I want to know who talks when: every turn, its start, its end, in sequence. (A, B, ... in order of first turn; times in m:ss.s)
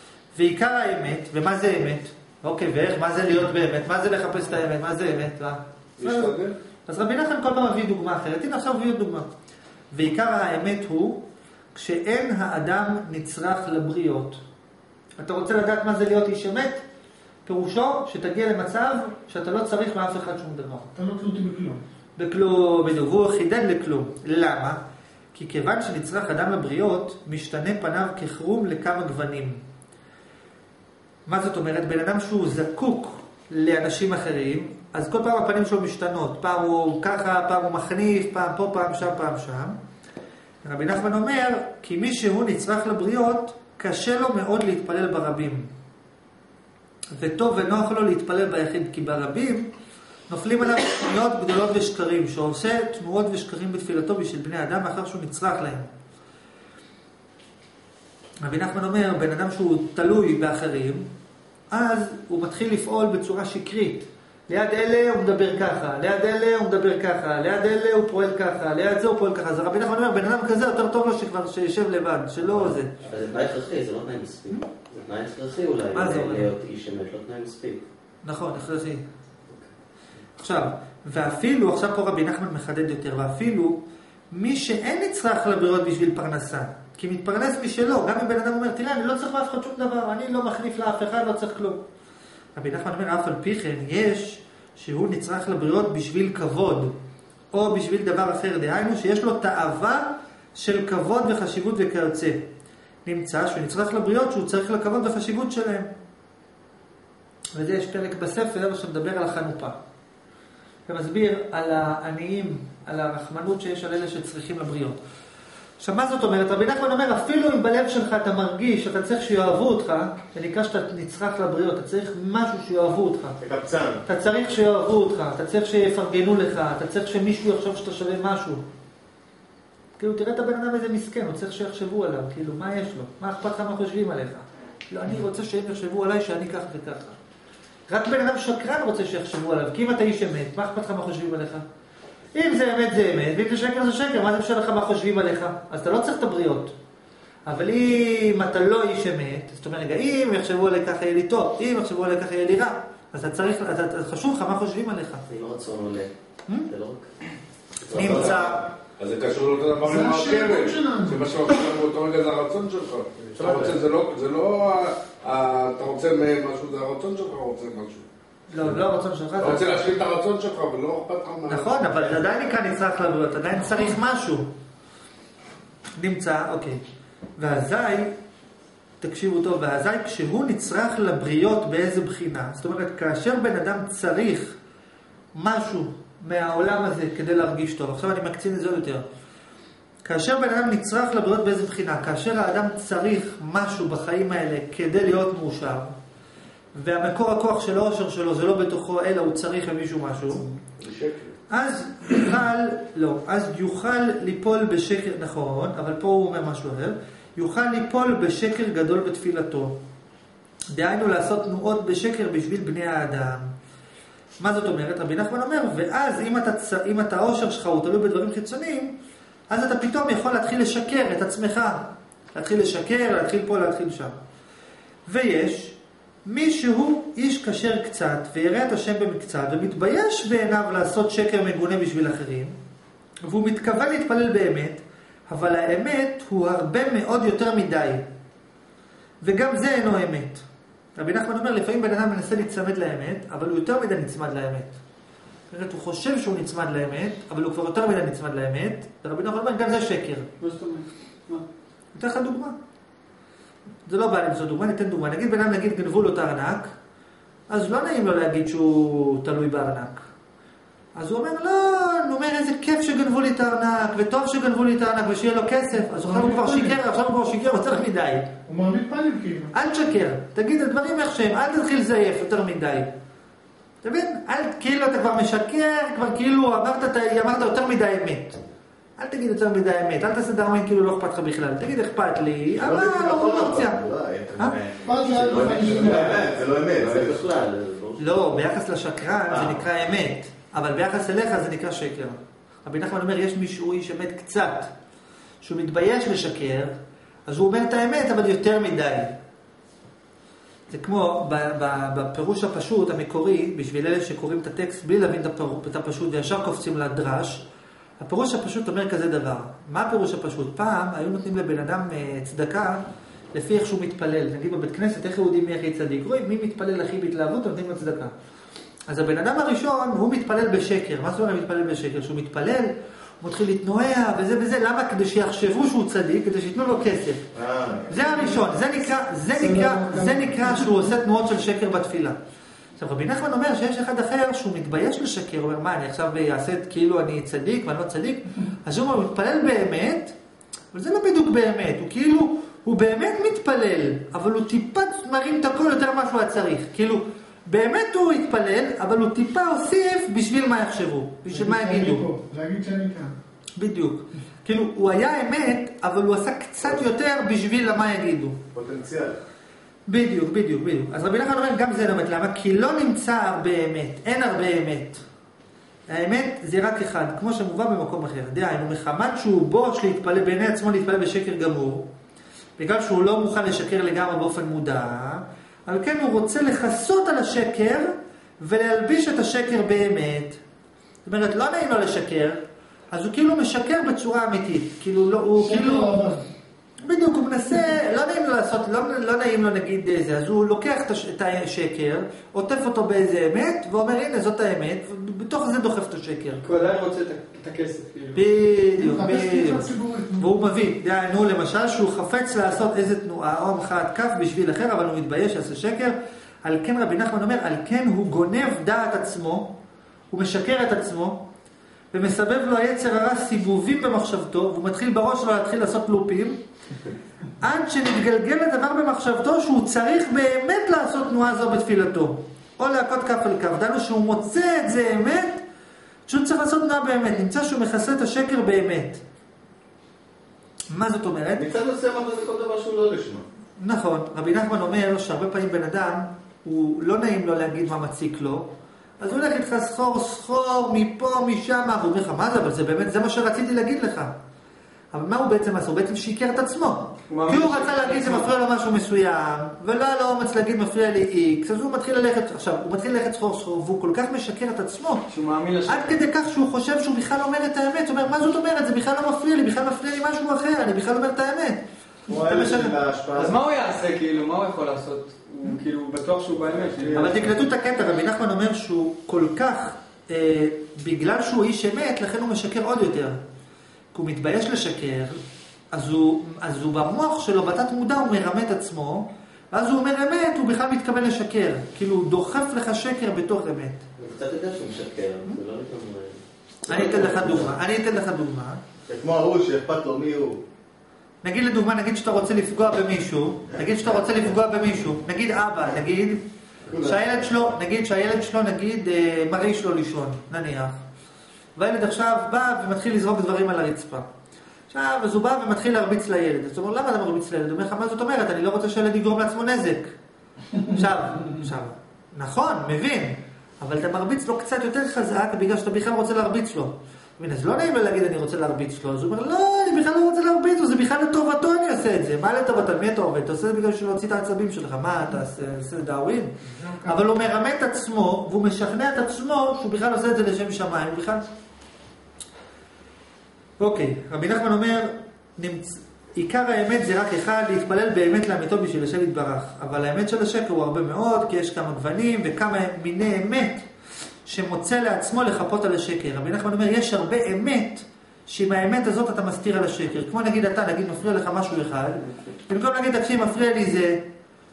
0:00.3-0:09.3 A
0:06.0-0:06.5 B
0:09.9-0:14.4 A
0:15.2-0:16.8 A
0:17.4-0:20.9 A
0:20.9-0:21.8 C
0:22.2-0:24.8 A
0:25.3-0:29.6 A
0:31.2-0:39.8 A
0:40.6-0:45.7 A
0:47.2-0:49.7 A
0:50.3-0:55.9 A
0:58.4-1:01.1 A
1:01.7-1:13.0 A
1:12.5-1:17.8 D
1:15.9-1:16.5 A
1:18.2-1:19.0 A
1:20.4-1:23.8 A
1:24.3-1:31.8 A
1:32.5-1:36.9 A
1:37.5-1:42.5 A
1:43.0-1:45.9 A
1:47.6-1:49.8 A
1:50.9-1:55.0 A
1:55.8-2:03.4 A
2:03.4-2:04.0 E
2:04.0-2:08.6 A
2:10.0-2:17.2 A
2:17.9-2:21.6 A
2:22.3-2:26.7 A
2:27.4-2:35.2 A
2:35.3-2:36.1 D
2:36.7-2:37.1 D
2:37.8-2:38.4 D
2:37.9-2:38.7 A
2:38.0-2:38.4 B
2:39.0-2:48.0 B
2:39.8-2:41.3 C
2:48.5-2:49.9 A
2:49.4-2:52.2 B
2:51.5-2:54.5 A
2:56.0-2:56.8 A
2:57.4-2:58.1 A
2:59.0-3:04.6 A
3:05.3-3:09.0 A
3:10.0-3:15.9 A
3:16.7-3:20.5 A
3:20.8-3:21.3 B
3:21.5-3:29.8 A
3:30.7-3:33.5 A
3:34.4-3:38.9 A
3:39.5-3:44.1 A
3:45.1-3:52.5 A
3:53.2-3:58.0 A
3:59.2-4:00.4 A
4:01.0-4:04.7 A
4:05.5-4:10.3 A
4:10.4-4:11.4 F
4:11.9-4:12.6 A
4:13.8-4:16.7 A
4:17.5-4:20.0 A
4:21.0-4:28.3 A
4:25.9-4:26.8 C
4:28.4-4:29.5 C
4:29.5-4:32.9 A
4:33.8-4:38.4 A
4:39.0-4:43.8 A
4:42.6-4:47.3 E
4:44.8-4:46.2 C
4:45.0-4:48.0 D
4:48.0-4:54.7 A
4:49.3-4:49.6 E
4:55.4-4:56.7 A
4:57.3-4:59.1 A
5:00.7-5:07.4 A
5:08.0-5:12.8 A
5:13.3-5:18.1 A
5:18.9-5:22.7 A
5:23.2-5:27.3 A
5:27.3-5:27.9 E
5:27.8-5:32.2 A
5:29.3-5:30.8 C
5:32.8-5:40.1 A
5:40.7-5:52.1 A
5:51.3-5:53.2 C
5:53.6-5:58.4 A
5:58.5-5:59.2 E
5:59.9-6:05.0 A
6:05.9-6:11.9 A
6:12.6-6:20.4 A
6:21.0-6:26.0 A
6:25.4-6:26.2 C
6:26.8-6:36.4 A
6:36.4-6:38.2 F
6:38.1-6:49.5 A
6:38.8-6:40.3 C
6:50.1-6:51.2 A
6:51.9-6:56.4 A
6:57.4-7:05.4 A
7:06.1-7:09.0 A
7:10.7-7:11.5 A
7:11.4-7:13.2 E
7:13.6-7:24.1 A
7:24.9-7:35.1 A
7:27.1-7:28.3 F
7:35.1-7:36.0 F
7:35.6-7:41.6 A
7:42.1-7:43.4 E
7:42.2-7:42.7 A
7:43.1-7:47.1 F
7:46.7-7:47.4 E
7:46.9-7:53.2 A
7:53.9-7:55.2 A
7:55.7-8:03.8 A
8:04.0-8:07.6 D
8:06.6-8:08.6 A
8:08.9-8:10.4 E
8:11.2-8:16.2 A
8:16.7-8:17.0 E
8:16.7-8:20.7 A
8:21.6-8:24.0 A
8:24.7-8:29.9 A
8:30.7-8:46.3 A
8:46.5-8:47.0 C
8:46.8-8:51.3 A
8:53.6-9:03.6 A
9:04.2-9:14.0 A